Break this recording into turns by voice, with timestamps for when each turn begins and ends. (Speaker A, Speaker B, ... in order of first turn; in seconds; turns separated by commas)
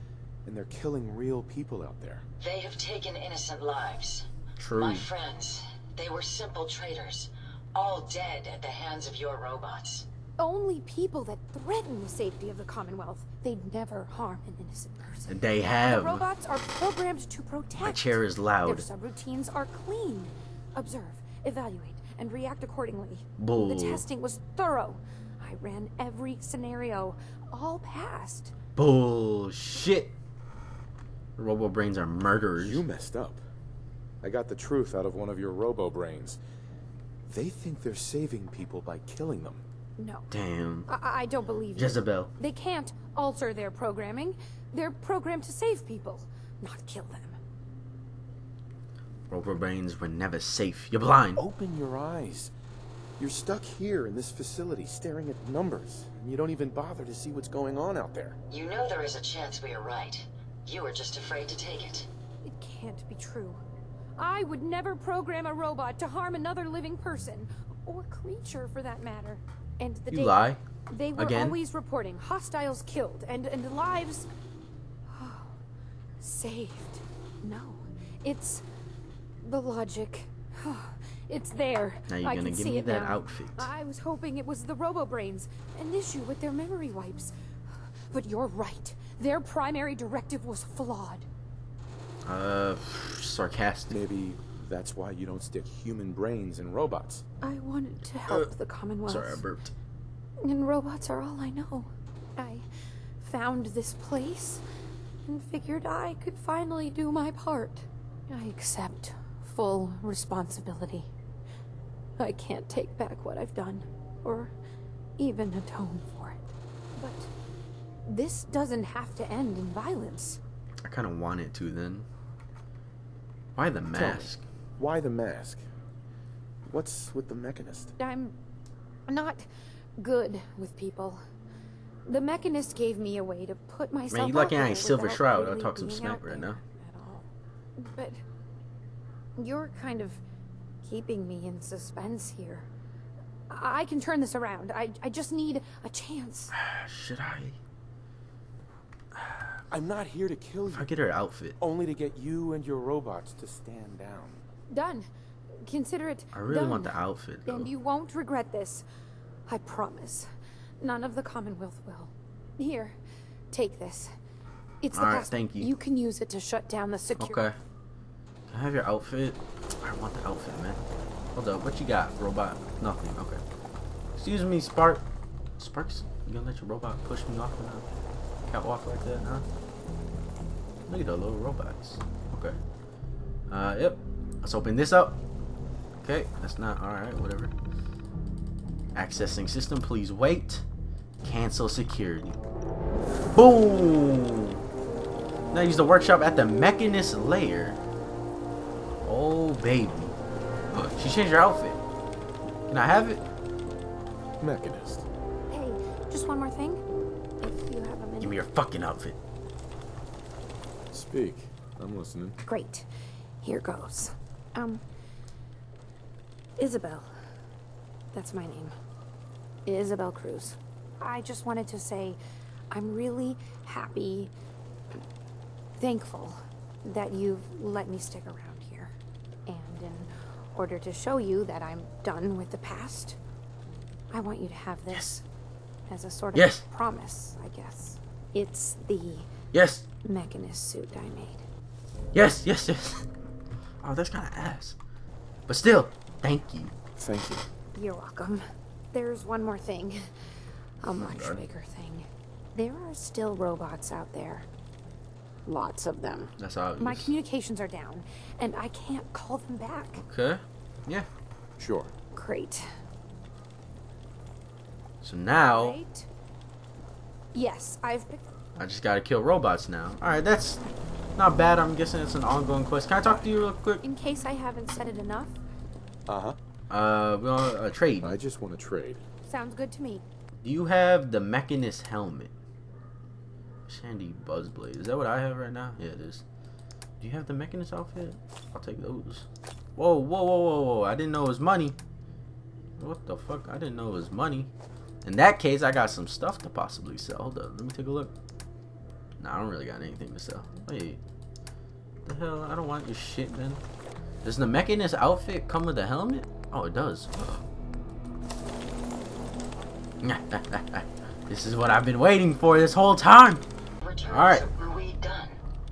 Speaker A: 0.5-2.3, Speaker B: 2.4-10.1, Speaker C: 4.6-5.1, Speaker D: 10.4-28.5, Speaker C: 15.3-16.3, Speaker C: 17.8-18.9, Speaker C: 23.4-24.1, Speaker C: 28.8-30.1, Speaker C: 31.4-32.8, Speaker A: 32.6-33.4, Speaker A: 34.2-36.4, Speaker A: 37.3-39.6, Speaker D: 40.0-40.3, Speaker C: 40.3-40.9, Speaker D: 40.9-47.4, Speaker C: 41.8-42.3, Speaker C: 49.3-51.4, Speaker A: 51.4-52.5, Speaker A: 53.2-58.4, Speaker B: 58.5-62.1, Speaker D: 62.5-63.6, Speaker D: 64.2-74.3, Speaker C: 70.1-70.6, Speaker C: 71.2-71.6, Speaker D: 75.1-75.5, Speaker D: 76.2-78.6, Speaker D: 79.4-87.3, Speaker C: 82.1-83.7, Speaker D: 88.1-91.3, Speaker C: 92.3-94.0, Speaker A: 93.9-97.2, Speaker D: 97.4-99.4, Speaker C: 99.0-99.7, Speaker D: 100.4-102.7, Speaker D: 103.2-104.6, Speaker D: 105.3-111.1, Speaker D: 112.2-114.5, Speaker D: 115.2-117.3, Speaker D: 118.1-120.4, Speaker C: 120.8-122.1, Speaker C: 123.6-124.4, Speaker A: 123.9-125.6, Speaker A: 126.7-127.9, Speaker D: 128.0-128.3, Speaker D: 129.1-129.5, Speaker D: 130.0-131.2, Speaker D: 132.1-138.2, Speaker C: 134.1-136.6, Speaker D: 139.4-140.2, Speaker D: 140.8-142.7, Speaker D: 143.5-146.5, Speaker C: 146.5-147.6, Speaker C: 149.2-149.5, Speaker A: 149.7-151.0, Speaker C: 150.7-151.6, Speaker A: 151.6-154.4, Speaker D: 154.7-155.1, Speaker D: 155.7-158.8, Speaker C: 156.3-157.7, Speaker D: 159.5-160.3, Speaker D: 160.8-163.0, Speaker D: 163.5-164.1, Speaker D: 164.8-167.4, Speaker C: 164.9-165.7, Speaker C: 167.2-167.6, Speaker C: 168.5-170.8, Speaker C: 171.3-173.4, Speaker C: 174.2-175.0, Speaker C: 175.6-177.8, Speaker C: 178.5-179.5, Speaker C: 180.9-182.6, Speaker C: 183.5-185.2, Speaker C: 186.0-187.5, Speaker C: 188.9-190.6, Speaker C: 191.2-192.4, Speaker C: 193.3-194.6, Speaker C: 195.5-197.8, Speaker C: 199.0-200.2, Speaker C: 200.7-201.8, Speaker C: 202.7-203.2, Speaker A: 204.4-205.1, Speaker D: 205.5-206.8, Speaker D: 207.4-208.3, Speaker C: 208.2-209.2, Speaker A: 210.9-212.4, Speaker D: 212.4-212.9, Speaker D: 213.4-214.8, Speaker D: 216.6-217.1, Speaker D: 218.1-218.7, Speaker D: 219.7-222.2, Speaker D: 222.7-224.3, Speaker D: 225.8-228.9, Speaker D: 229.5-233.2, Speaker D: 234.1-235.2, Speaker C: 234.9-235.2, Speaker D: 235.9-239.3, Speaker C: 236.3-236.6, Speaker C: 239.5-239.9, Speaker D: 240.0-241.4, Speaker C: 242.1-243.1, Speaker C: 243.8-244.8, Speaker C: 245.5-246.7, Speaker A: 247.0-247.4, Speaker D: 247.8-250.1, Speaker D: 250.8-254.5, Speaker C: 250.9-251.4, Speaker D: 255.5-260.0, Speaker C: 256.4-257.1, Speaker C: 260.0-261.1, Speaker A: 261.6-261.9, Speaker D: 262.1-262.7, Speaker C: 265.0-265.8, Speaker D: 265.4-266.1, Speaker D: 267.3-268.2, Speaker C: 268.6-270.6, Speaker C: 271.2-273.8, Speaker D: 273.8-275.4, Speaker A: 276.1-276.4, Speaker C: 276.7-278.2, Speaker A: 278.0-279.0, Speaker D: 279.3-280.0, Speaker C: 280.4-282.3, Speaker C: 283.7-286.2, Speaker C: 287.0-291.8, Speaker C: 292.8-294.5, Speaker C: 295.0-298.1, Speaker C: 299.2-301.0, Speaker C: 302.1-303.6, Speaker C: 304.2-307.4, Speaker C: 310.0-313.4, Speaker B: 313.8-315.4, Speaker C: 314.1-314.4